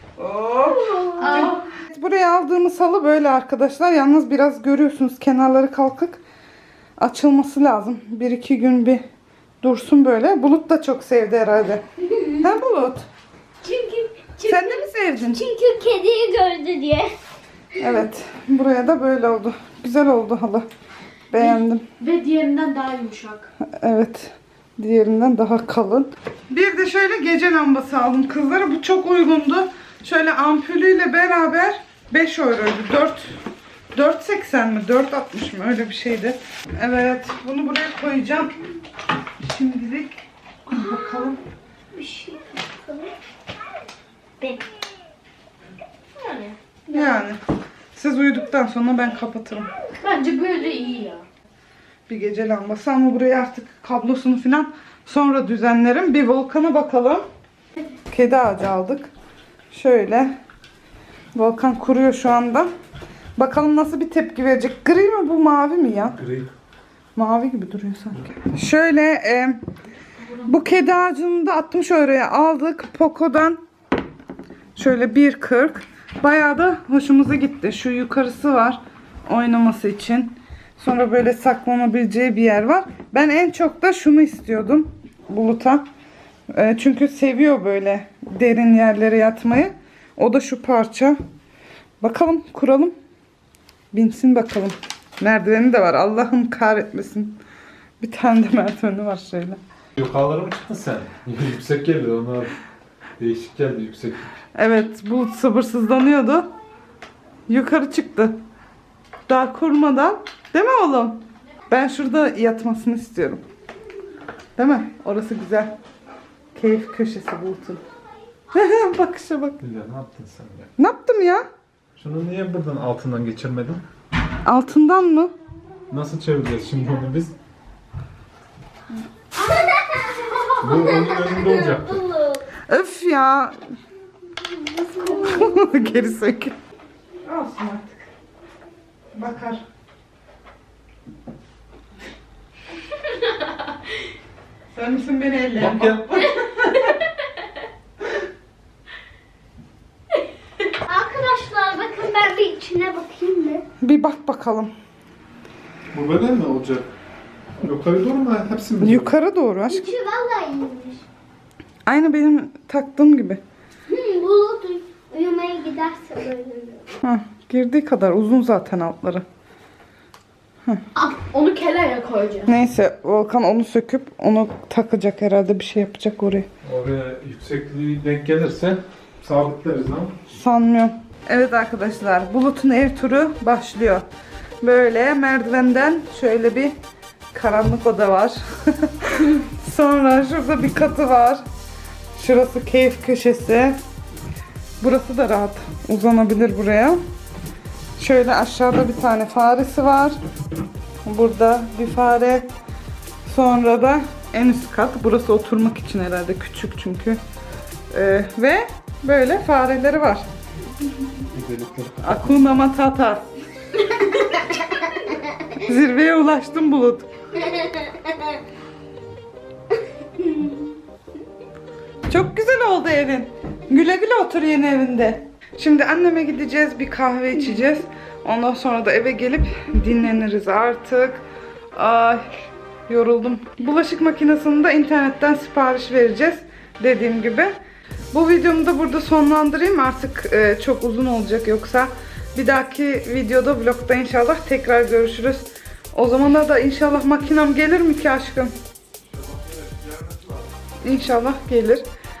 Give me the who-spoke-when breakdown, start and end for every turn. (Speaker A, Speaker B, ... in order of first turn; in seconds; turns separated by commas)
Speaker A: 0.1-6.2, Speaker B: 0.7-1.6, Speaker C: 1.2-1.6, Speaker A: 7.0-9.0, Speaker A: 9.6-13.1, Speaker C: 13.6-14.3, Speaker B: 14.4-17.1, Speaker A: 14.4-15.4, Speaker A: 17.8-20.7, Speaker A: 21.3-21.9, Speaker C: 21.3-23.5, Speaker A: 23.6-33.4, Speaker A: 33.9-38.5, Speaker A: 39.4-41.4, Speaker B: 41.9-43.1, Speaker C: 46.2-46.5, Speaker A: 46.9-47.4, Speaker A: 47.9-49.7, Speaker C: 50.0-51.2, Speaker A: 52.1-57.2, Speaker A: 58.1-59.1, Speaker A: 59.7-60.3, Speaker A: 61.3-62.7, Speaker A: 63.4-66.2, Speaker D: 66.2-66.5, Speaker A: 67.2-69.6, Speaker A: 70.4-73.6, Speaker A: 74.8-85.8, Speaker A: 86.5-91.2, Speaker A: 92.0-92.9, Speaker A: 93.9-97.4, Speaker A: 98.0-99.6, Speaker D: 100.0-102.5, Speaker D: 103.2-104.3, Speaker A: 104.5-106.5, Speaker A: 107.5-108.4, Speaker A: 109.3-113.4, Speaker A: 114.5-115.8, Speaker A: 116.5-117.8, Speaker A: 118.5-119.6, Speaker D: 119.6-120.7, Speaker A: 120.8-121.4, Speaker D: 122.0-123.8, Speaker A: 124.4-125.3, Speaker D: 125.9-127.3, Speaker B: 129.4-132.4, Speaker D: 130.6-132.0, Speaker A: 132.7-133.6, Speaker B: 134.3-135.8, Speaker A: 135.0-136.5, Speaker A: 137.2-138.1, Speaker A: 139.1-139.6, Speaker A: 144.7-146.8, Speaker D: 145.6-146.2, Speaker C: 146.7-147.1, Speaker B: 150.8-153.6, Speaker A: 153.8-154.7, Speaker D: 155.9-156.9, Speaker D: 157.6-159.1, Speaker A: 158.8-159.9, Speaker B: 159.7-161.0, Speaker A: 161.8-163.4, Speaker B: 163.9-166.9, Speaker A: 167.0-169.2, Speaker C: 170.9-172.5, Speaker A: 172.5-176.5, Speaker D: 176.6-180.1, Speaker A: 180.3-184.0, Speaker A: 184.6-186.7, Speaker A: 187.3-191.4, Speaker A: 192.1-193.8, Speaker A: 194.8-197.0, Speaker A: 198.0-200.2, Speaker A: 201.0-202.5, Speaker A: 203.2-207.2, Speaker A: 207.9-210.3, Speaker D: 211.3-212.5, Speaker A: 212.0-213.2, Speaker A: 215.5-217.1, Speaker B: 217.5-218.2, Speaker B: 220.2-220.5, Speaker A: 222.1-232.3, Speaker A: 232.9-237.5, Speaker A: 238.1-248.5, Speaker D: 249.3-250.3, Speaker A: 250.8-251.8